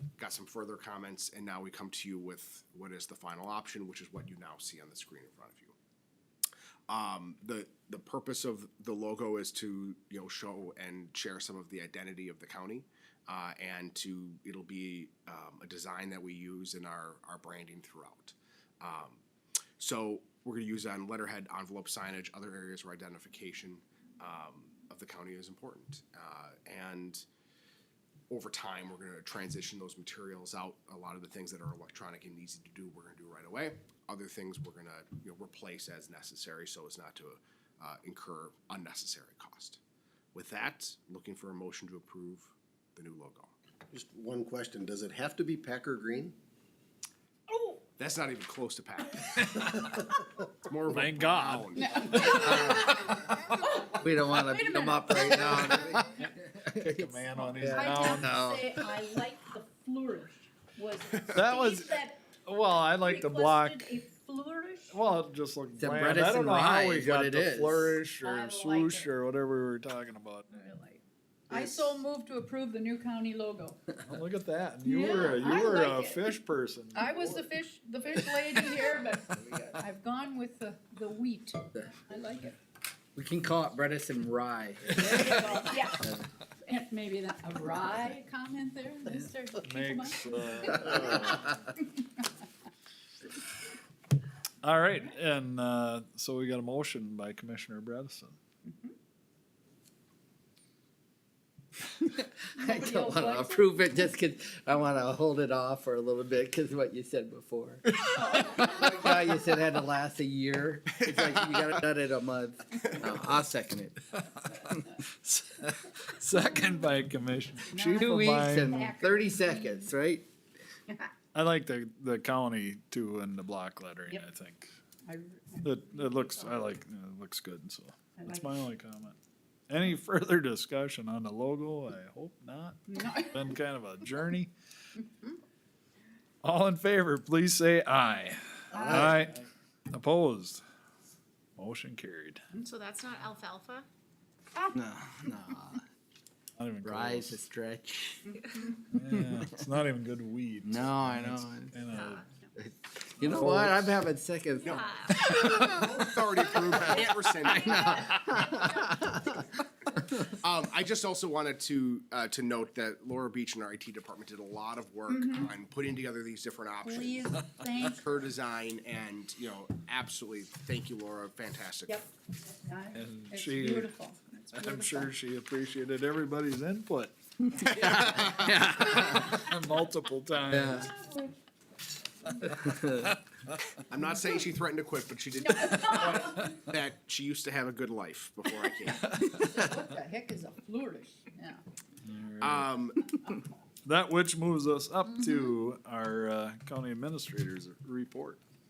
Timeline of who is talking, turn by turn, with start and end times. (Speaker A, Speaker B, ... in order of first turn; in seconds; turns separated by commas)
Speaker A: 0.2-5.8, Speaker A: 6.9-19.2, Speaker A: 19.8-27.3, Speaker A: 28.3-39.8, Speaker A: 40.3-43.5, Speaker B: 43.9-46.4, Speaker C: 47.5-47.8, Speaker A: 48.0-49.9, Speaker D: 49.5-49.9, Speaker A: 50.6-52.6, Speaker D: 50.9-53.6, Speaker C: 51.8-56.0, Speaker E: 52.4-53.0, Speaker E: 54.0-58.9, Speaker D: 55.9-58.4, Speaker C: 57.6-64.9, Speaker D: 61.3-64.0, Speaker D: 64.9-70.5, Speaker E: 65.8-68.0, Speaker C: 68.2-69.1, Speaker C: 70.5-73.9, Speaker E: 71.5-71.8, Speaker D: 74.1-77.5, Speaker C: 74.8-76.3, Speaker C: 76.9-82.6, Speaker E: 79.4-79.7, Speaker E: 83.2-86.3, Speaker C: 85.0-86.0, Speaker C: 86.6-91.5, Speaker D: 89.6-91.6, Speaker E: 90.7-91.0, Speaker D: 94.6-98.4, Speaker C: 98.7-99.0, Speaker E: 102.0-114.1, Speaker C: 102.5-103.8, Speaker C: 108.2-108.9, Speaker A: 111.1-111.4, Speaker D: 115.0-118.7, Speaker C: 117.7-119.9, Speaker E: 118.0-120.3, Speaker D: 121.3-124.7, Speaker C: 125.1-126.7, Speaker D: 125.6-129.2, Speaker C: 128.2-128.6, Speaker D: 129.7-132.8, Speaker C: 132.9-133.4, Speaker D: 133.3-134.5, Speaker C: 135.0-135.4, Speaker D: 136.4-140.6, Speaker C: 138.7-139.2, Speaker E: 138.8-139.1, Speaker D: 141.6-142.4, Speaker F: 142.6-143.9, Speaker E: 144.7-145.8, Speaker D: 146.6-147.4, Speaker E: 146.8-148.4, Speaker D: 148.9-152.3, Speaker E: 149.1-149.5, Speaker E: 150.7-151.8, Speaker F: 151.9-152.2, Speaker E: 152.6-160.2, Speaker D: 153.2-154.0, Speaker F: 154.7-155.6, Speaker A: 155.6-158.2, Speaker C: 156.8-159.5, Speaker A: 160.2-172.0, Speaker C: 165.1-165.5, Speaker C: 166.8-168.3, Speaker C: 171.9-175.1, Speaker D: 172.9-173.9, Speaker D: 174.5-177.8, Speaker E: 177.5-179.4, Speaker A: 177.9-178.5, Speaker D: 179.3-180.9, Speaker E: 180.5-180.9, Speaker C: 180.8-181.4, Speaker E: 182.5-183.2, Speaker A: 183.9-189.1, Speaker C: 185.4-186.5, Speaker C: 189.2-191.6, Speaker D: 192.0-192.7, Speaker A: 192.4-193.2, Speaker D: 193.8-198.4